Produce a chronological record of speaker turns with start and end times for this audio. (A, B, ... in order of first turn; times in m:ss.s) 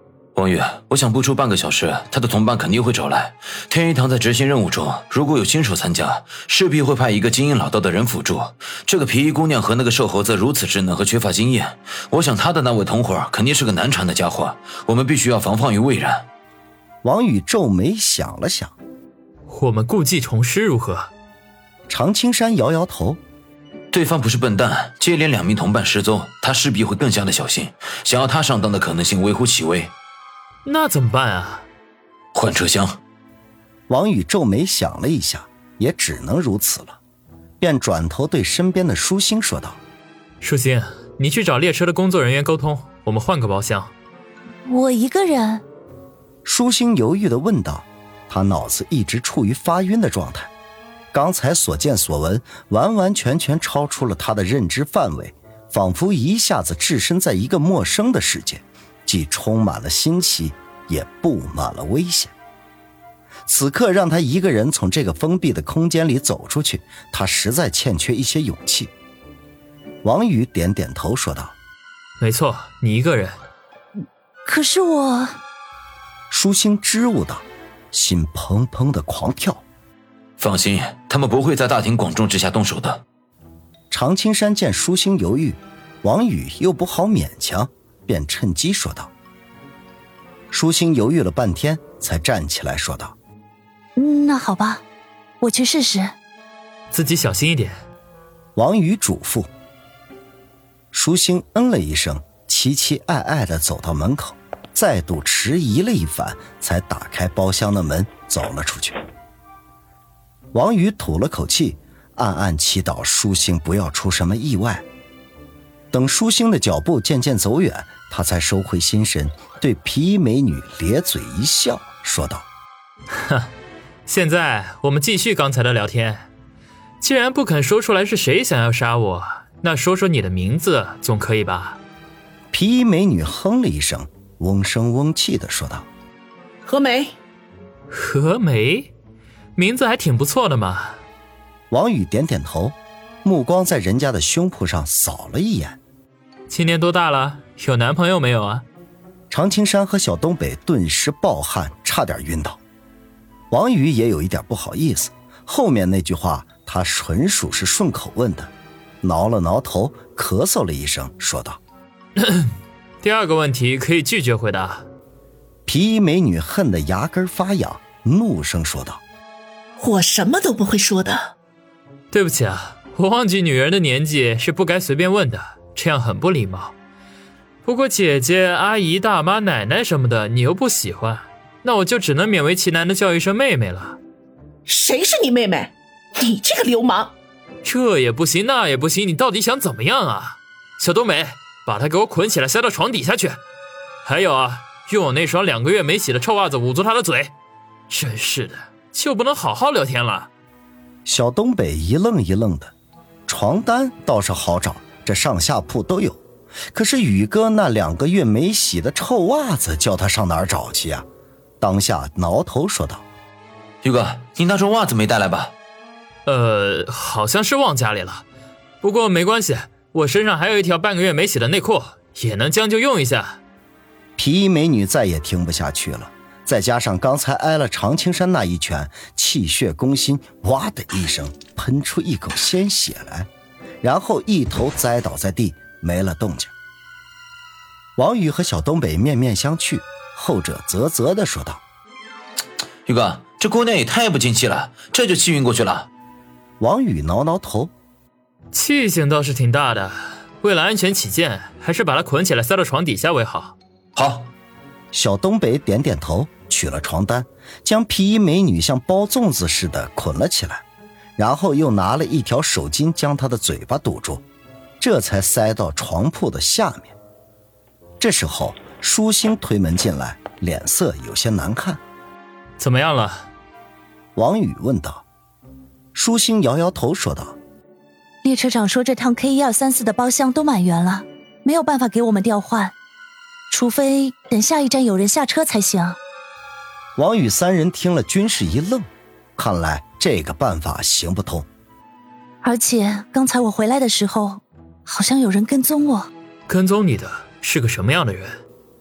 0:00.4-0:16.3 A
0:17.0-0:18.8 B
0:19.5-0:21.1 C
0:21.9-0:23.2 B
0:23.9-0:29.9 A
0:30.6-0:31.7 C
0:32.4-0:33.0 A
0:33.9-0:37.0 B
0:37.6-0:39.8 B
0:40.4-0:43.9 C
0:44.7-0:45.6 D
0:46.4-0:50.5 B
0:51.1-1:02.3 B
1:03.5-1:08.9 B
1:10.0-1:11.6 B
1:12.2-1:13.4 C
1:14.0-1:15.4 D
1:16.3-1:19.6 B
1:20.4-1:23.0 A
1:23.9-1:29.1 B
1:30.5-1:33.2 B
1:34.0-1:34.8 D
1:35.4-1:36.2 D
1:36.9-1:37.8 C
1:38.6-1:39.5 B
1:40.9-1:49.0 B
1:50.5-1:54.8 B
1:55.9-2:02.5 B
2:03.1-2:03.5 C
2:04.1-2:06.3 C
2:07.0-2:11.8 C
2:12.5-2:15.9 B
2:16.6-2:17.1 E
2:17.9-2:18.9 C
2:19.6-2:21.0 C
2:21.7-2:25.8 B
2:26.5-2:28.6 C
2:29.3-2:32.6 B
2:33.5-2:38.5 B
2:39.0-2:41.6 B
2:42.2-2:44.8 C
2:45.7-2:49.0 B
2:49.8-2:51.3 E
2:52.1-2:56.7 C
2:57.6-3:04.0 C
3:04.7-3:07.1 E
3:07.6-3:13.4 C
3:14.0-3:17.3 C
3:17.9-3:20.3 C
3:21.1-3:22.7 B
3:23.3-3:31.1 B
3:31.6-3:33.0 B
3:33.8-3:35.5 A
3:36.3-3:38.2 C
3:38.8-3:43.4 C
3:44.2-3:53.3 B
3:53.8-3:56.5 B
3:58.0-4:01.6 B
4:02.9-4:05.9 A
4:06.6-4:07.7 B
4:08.5-4:13.6 C
4:14.0-4:14.3 A
4:14.9-4:20.6 B
4:21.2-4:24.2 B
4:24.8-4:27.0 B
4:28.0-4:31.8 B
4:32.6-4:33.3 C
4:34.2-4:35.0 B
4:35.9-4:37.4 B
4:38.2-4:42.8 D
4:43.5-4:46.0 D
4:47.0-4:51.5 B
4:52.4-4:56.1 D
4:56.5-4:58.4 C